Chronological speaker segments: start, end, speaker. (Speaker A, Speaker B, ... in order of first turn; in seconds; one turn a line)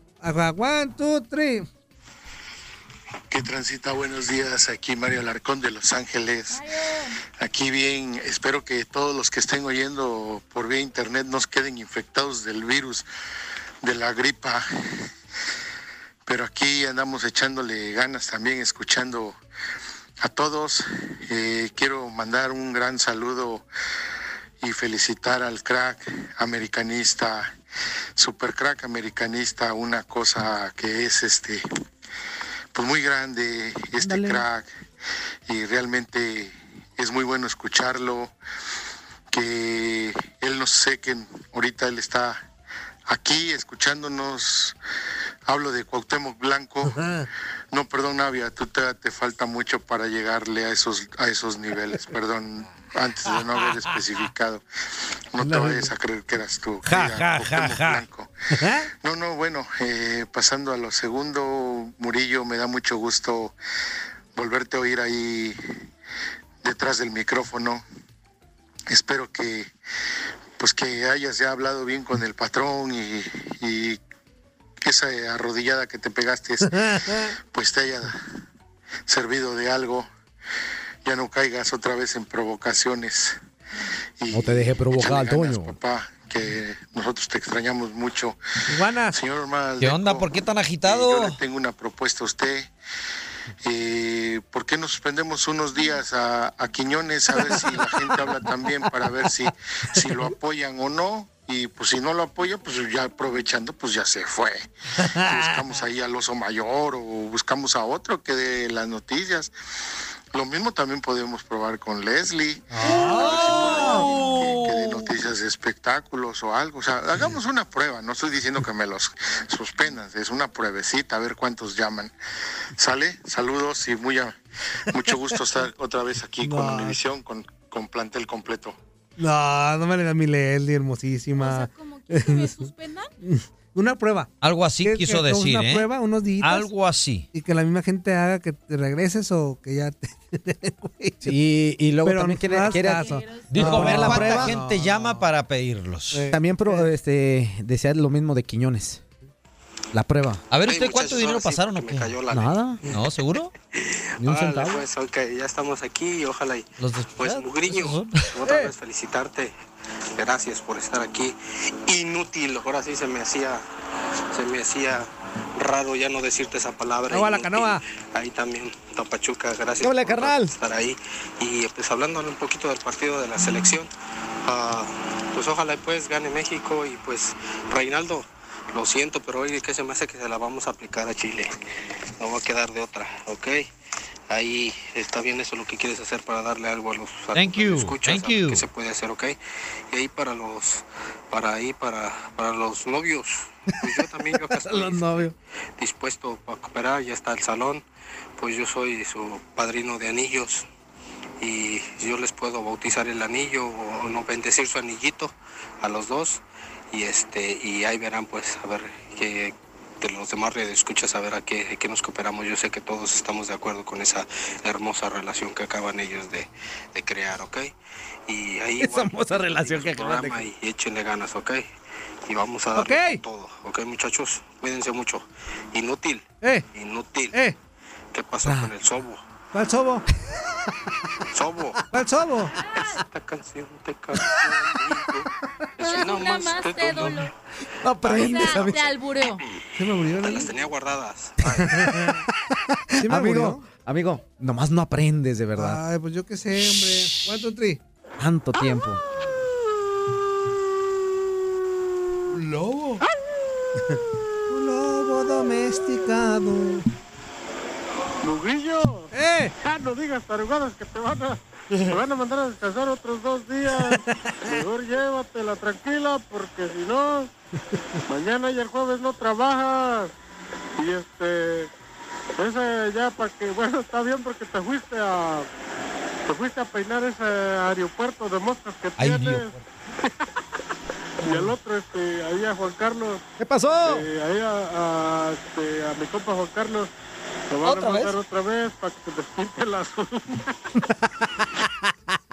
Speaker A: 0.2-1.6
Speaker B: 3.3-6.6
Speaker C: 6.5-7.1
Speaker B: 7.4-13.1
Speaker B: 13.8-14.6
Speaker B: 16.2-19.4
Speaker B: 20.2-23.6
Speaker B: 24.6-27.5
Speaker B: 28.2-31.6
Speaker B: 32.7-34.7
Speaker D: 34.0-34.4
Speaker B: 35.5-38.3
Speaker B: 39.3-42.4
Speaker B: 43.1-44.7
Speaker B: 45.5-47.0
Speaker A: 46.9-47.2
Speaker B: 47.7-54.6
Speaker B: 55.3-58.3
Speaker A: 55.4-55.9
Speaker E: 56.8-58.0
Speaker A: 58.6-58.8
Speaker B: 59.0-63.5
Speaker B: 64.3-65.6
Speaker B: 66.6-67.8
Speaker B: 68.9-69.7
Speaker B: 70.6-74.0
Speaker B: 74.8-78.2
Speaker A: 76.7-77.2
Speaker B: 79.1-80.1
Speaker B: 81.0-83.4
Speaker B: 84.2-88.4
Speaker D: 84.3-85.7
Speaker A: 88.7-89.1
Speaker B: 89.1-90.3
Speaker E: 89.8-91.4
Speaker B: 90.8-92.7
Speaker B: 93.6-104.6
Speaker A: 97.5-97.8
Speaker A: 105.0-105.7
Speaker B: 105.2-109.5
Speaker B: 110.3-122.1
Speaker E: 112.7-115.1
Speaker A: 112.9-114.0
Speaker B: 122.8-124.3
Speaker B: 124.9-128.8
Speaker A: 126.4-127.0
Speaker A: 129.2-132.5
Speaker C: 131.4-133.1
Speaker A: 133.2-134.3
Speaker E: 134.4-135.9
Speaker A: 134.8-136.7
Speaker E: 136.4-137.3
Speaker A: 137.3-141.3
Speaker D: 141.2-144.6
Speaker A: 142.0-145.2
Speaker C: 143.0-143.4
Speaker E: 143.5-146.2
Speaker A: 146.1-146.9
Speaker D: 146.3-149.0
Speaker D: 149.9-150.4
Speaker E: 150.5-152.2
Speaker F: 150.6-152.7
Speaker D: 152.3-152.8
Speaker E: 152.9-153.5
Speaker D: 154.2-154.8
Speaker F: 154.2-159.5
Speaker E: 156.8-158.2
Speaker A: 158.4-158.7
Speaker F: 160.2-163.6
Speaker F: 164.3-173.9
Speaker A: 167.1-167.8
Speaker D: 169.8-170.5
Speaker F: 174.4-181.5
Speaker F: 182.2-183.7
Speaker F: 184.3-189.4
Speaker E: 187.3-188.7
Speaker F: 189.9-195.1
Speaker D: 194.6-195.3
Speaker F: 195.8-197.8
Speaker F: 198.4-200.7
Speaker F: 201.4-206.4
Speaker F: 206.9-217.7
Speaker F: 218.3-221.7
Speaker D: 218.8-220.4
Speaker F: 222.2-227.4
Speaker A: 222.7-223.2
Speaker F: 228.1-229.2
Speaker D: 228.4-228.7
Speaker A: 229.5-230.1
Speaker F: 231.3-231.9
Speaker A: 231.9-232.5
Speaker F: 232.9-235.2
Speaker C: 235.8-237.3
Speaker F: 235.8-237.3
Speaker D: 237.8-238.8
Speaker F: 238.0-238.8
Speaker C: 238.0-239.4
Speaker A: 239.8-240.5
Speaker F: 239.8-242.0
Speaker A: 241.7-242.1
Speaker D: 243.0-245.8
Speaker A: 243.0-243.6
Speaker A: 245.6-247.8
Speaker D: 248.2-249.0
Speaker E: 252.3-253.0
Speaker A: 254.5-256.8
Speaker G: 258.2-259.1
Speaker A: 259.1-259.5
Speaker G: 259.6-261.4
Speaker G: 261.9-267.3
Speaker G: 268.1-270.1
Speaker G: 270.8-271.7
Speaker G: 272.4-275.4
Speaker G: 276.3-279.5
Speaker E: 279.0-279.6
Speaker G: 281.2-283.2
Speaker D: 283.4-284.0
Speaker G: 283.8-286.9
Speaker G: 287.5-290.5
Speaker D: 287.6-288.1
Speaker D: 290.9-291.8